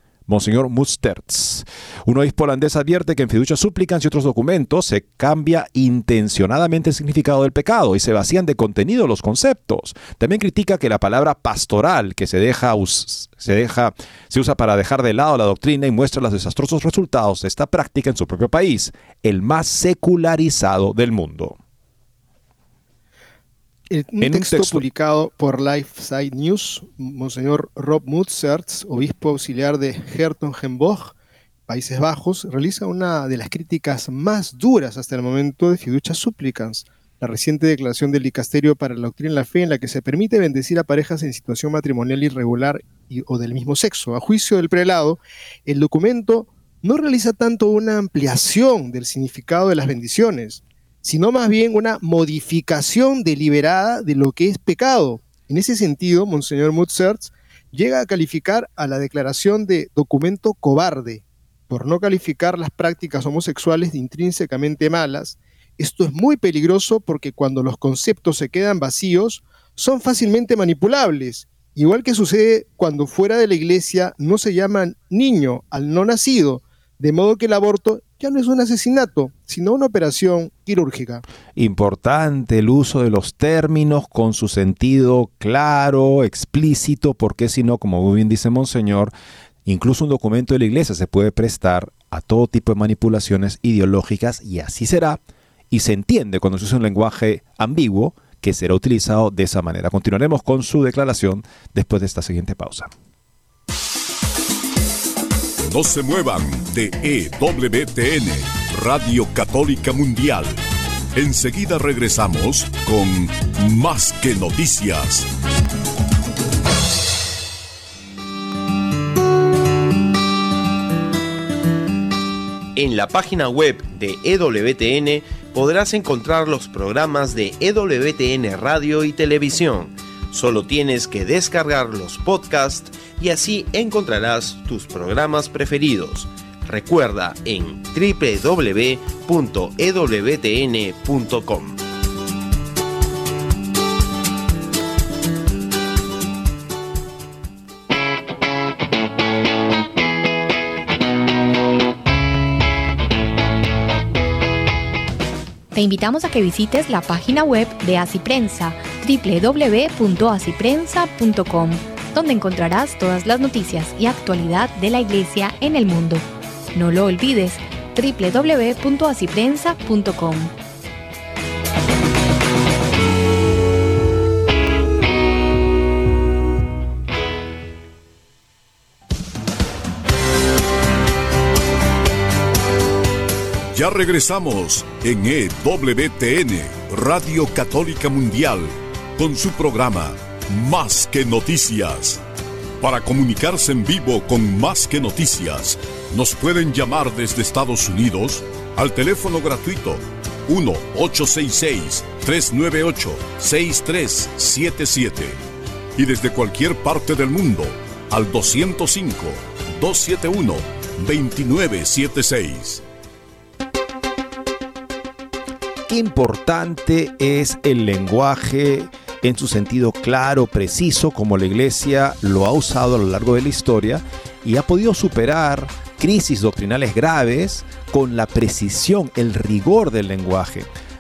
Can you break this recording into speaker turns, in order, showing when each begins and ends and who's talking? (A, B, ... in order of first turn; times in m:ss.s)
0:00.3-0:21.6 A
0:23.9-0:31.1 B
0:24.2-0:24.8 A
0:31.7-1:21.2 B
1:21.6-1:29.1 A
1:29.6-1:35.2 A
1:35.7-1:42.9 A
1:45.6-1:50.6 C
1:51.1-1:55.3 C
2:02.8-2:21.8 D
2:35.7-2:50.5 E
3:03.7-3:12.2 C
3:12.8-3:25.4 C
3:26.0-3:32.8 C
3:35.9-3:50.7 A